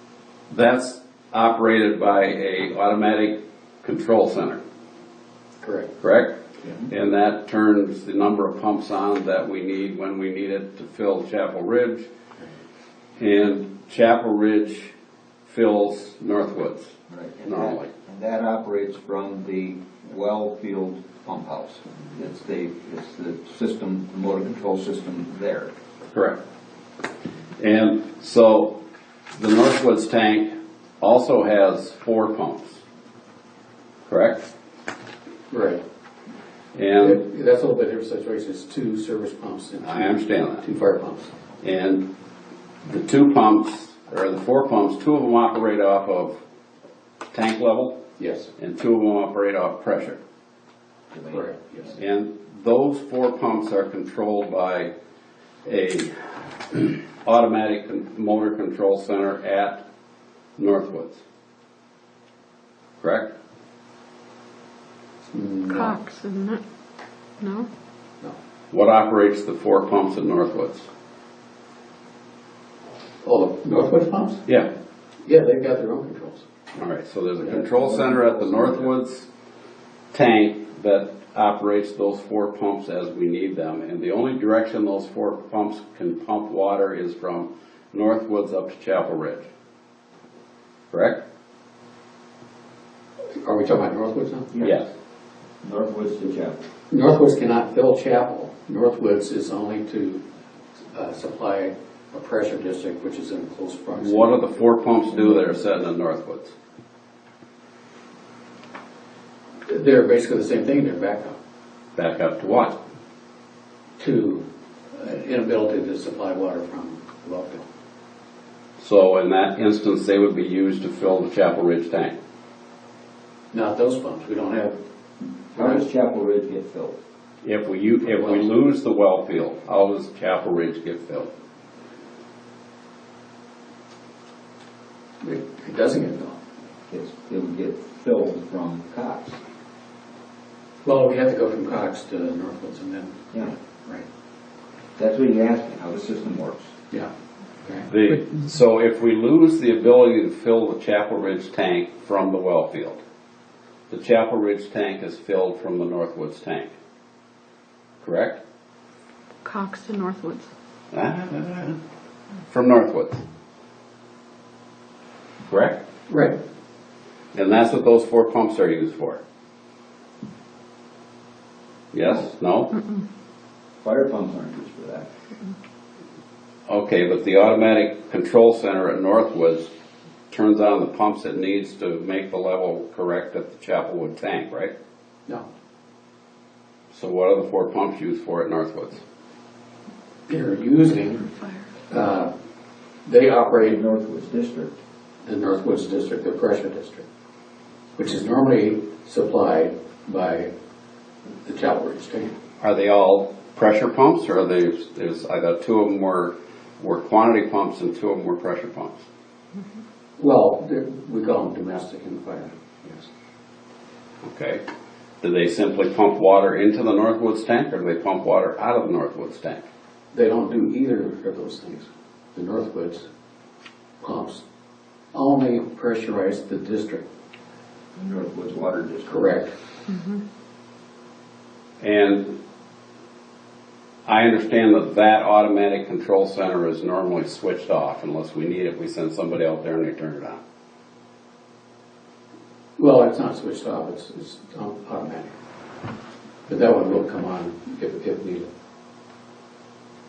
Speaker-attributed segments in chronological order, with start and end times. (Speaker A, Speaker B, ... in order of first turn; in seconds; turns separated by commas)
Speaker A: 0.5-4.6, Speaker B: 5.6-5.9, Speaker A: 6.0-6.4, Speaker A: 6.9-12.1, Speaker A: 13.2-14.9, Speaker A: 15.5-17.9, Speaker C: 17.1-25.7, Speaker A: 26.1-26.4, Speaker A: 27.6-28.8, Speaker A: 29.4-32.8, Speaker A: 34.1-34.5, Speaker B: 35.5-35.8, Speaker A: 36.7-37.2, Speaker B: 37.0-41.3, Speaker A: 39.8-40.7, Speaker A: 41.6-42.1, Speaker A: 42.8-46.4, Speaker A: 47.3-48.0, Speaker B: 48.2-48.5, Speaker A: 48.6-50.2, Speaker B: 51.3-51.9, Speaker A: 52.0-54.9, Speaker A: 55.6-56.1, Speaker A: 56.7-59.8, Speaker A: 60.6-61.2, Speaker A: 63.0-63.3, Speaker B: 65.3-66.0, Speaker D: 65.7-66.6, Speaker D: 67.4-67.7, Speaker A: 68.7-70.9, Speaker B: 73.2-74.5, Speaker B: 75.2-76.5, Speaker A: 76.8-79.3, Speaker C: 77.6-78.9, Speaker A: 80.1-89.5, Speaker A: 90.9-91.2, Speaker B: 93.4-94.5, Speaker C: 94.5-94.8, Speaker A: 94.6-94.9, Speaker C: 95.6-96.6, Speaker B: 96.9-100.2, Speaker B: 100.9-104.4, Speaker A: 104.0-106.5, Speaker B: 109.7-111.4, Speaker A: 112.0-112.8, Speaker B: 114.0-117.7, Speaker A: 118.8-122.2, Speaker B: 123.5-124.8, Speaker B: 125.5-125.8, Speaker C: 125.5-127.0, Speaker A: 127.4-131.3, Speaker B: 135.2-136.4, Speaker C: 136.9-139.4, Speaker B: 140.8-143.3, Speaker C: 145.0-146.7, Speaker B: 147.6-147.9, Speaker A: 147.9-153.0, Speaker A: 153.9-156.7, Speaker A: 158.0-158.4, Speaker D: 159.4-160.5, Speaker A: 160.9-161.8, Speaker A: 162.5-163.2, Speaker A: 165.5-165.8, Speaker B: 166.1-166.4, Speaker A: 167.3-169.2, Speaker A: 171.9-172.8, Speaker C: 173.8-175.1, Speaker A: 176.7-179.7, Speaker A: 180.3-184.7, Speaker A: 186.9-189.0, Speaker B: 190.3-191.3, Speaker B: 191.9-192.3, Speaker B: 193.1-193.8, Speaker C: 193.5-194.7, Speaker B: 195.2-197.1, Speaker B: 198.0-200.5, Speaker B: 201.4-202.3, Speaker A: 202.6-209.0, Speaker B: 210.2-213.1, Speaker A: 214.2-214.6, Speaker A: 215.2-219.6, Speaker B: 220.1-223.1, Speaker B: 224.0-224.4, Speaker B: 225.1-227.1, Speaker C: 227.9-229.3, Speaker B: 229.1-229.5, Speaker A: 231.8-232.4, Speaker A: 234.1-240.4, Speaker B: 242.8-245.3, Speaker B: 246.5-248.5